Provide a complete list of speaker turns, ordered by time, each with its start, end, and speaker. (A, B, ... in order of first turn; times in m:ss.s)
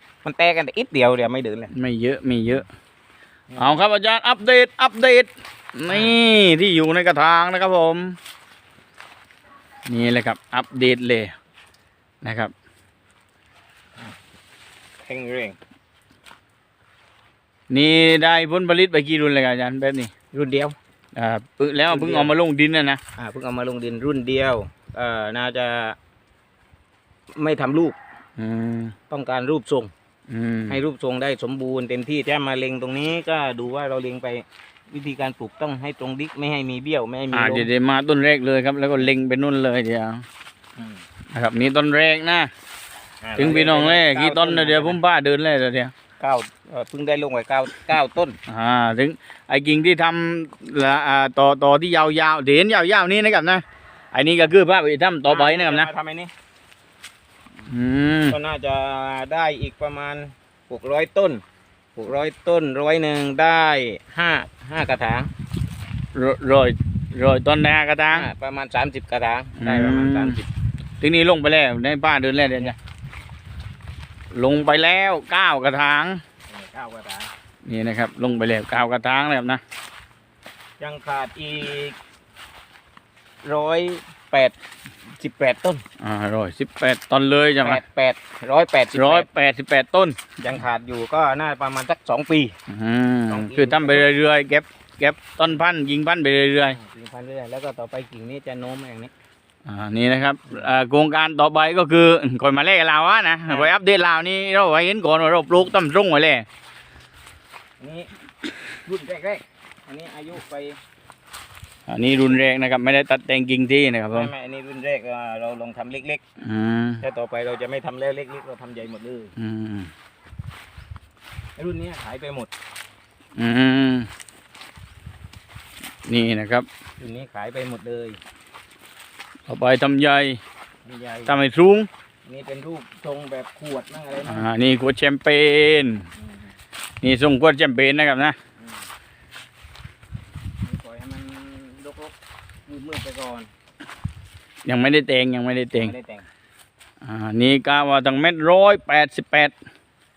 0:00.2-0:01.7 A
0:01.7-0:02.7 B
0:03.6-0:08.2 B
0:05.9-0:06.1 A
0:09.9-0:11.3 B
0:12.2-0:12.5 B
0:15.0-0:15.6 A
0:17.7-0:20.1 B
0:20.3-0:20.8 A
0:21.1-0:23.0 B
0:21.9-0:22.3 A
0:23.2-0:26.0 A
0:27.4-0:28.0 A
0:28.4-0:28.9 B
0:29.1-0:29.9 A
0:30.3-0:30.8 B
0:30.7-0:37.7 A
0:37.3-0:40.2 B
0:40.8-0:41.0 A
0:41.3-0:42.5 B
0:43.2-0:45.0 A
0:43.4-0:45.9 B
0:46.2-0:48.4 A
0:48.5-0:55.9 B
0:55.3-0:56.3 A
0:57.7-0:58.4 B
0:58.3-1:01.4 A
1:02.0-1:05.3 A
1:06.1-1:08.3 B
1:08.1-1:10.4 A
1:09.6-1:10.4 B
1:11.0-1:12.8 B
1:14.3-1:16.2 B
1:16.5-1:17.3 A
1:17.6-1:19.6 B
1:20.8-1:22.0 A
1:23.4-1:24.6 A
1:25.2-1:25.8 A
1:26.0-1:27.8 B
1:27.6-1:29.3 A
1:28.9-1:30.2 B
1:30.4-1:32.6 A
1:32.7-1:36.8 B
1:33.3-1:34.1 A
1:36.7-1:39.1 A
1:39.6-1:46.4 B
1:43.5-1:43.8 A
1:47.8-1:48.1 A
1:48.8-1:50.8 A
1:51.9-1:54.3 B
1:54.1-1:56.2 A
1:56.4-1:57.0 B
1:57.0-1:59.3 A
1:59.4-1:59.9 B
2:01.6-2:02.5 A
2:03.4-2:04.1 B
2:06.1-2:06.7 B
2:07.0-2:08.2 A
2:09.5-2:10.4 B
2:10.8-2:11.4 A
2:11.2-2:11.9 B
2:12.2-2:14.5 A
2:14.2-2:16.1 B
2:17.0-2:18.4 B
2:20.6-2:22.1 A
2:22.7-2:23.5 A
2:24.6-2:25.9 B
2:25.7-2:26.3 A
2:27.0-2:29.5 B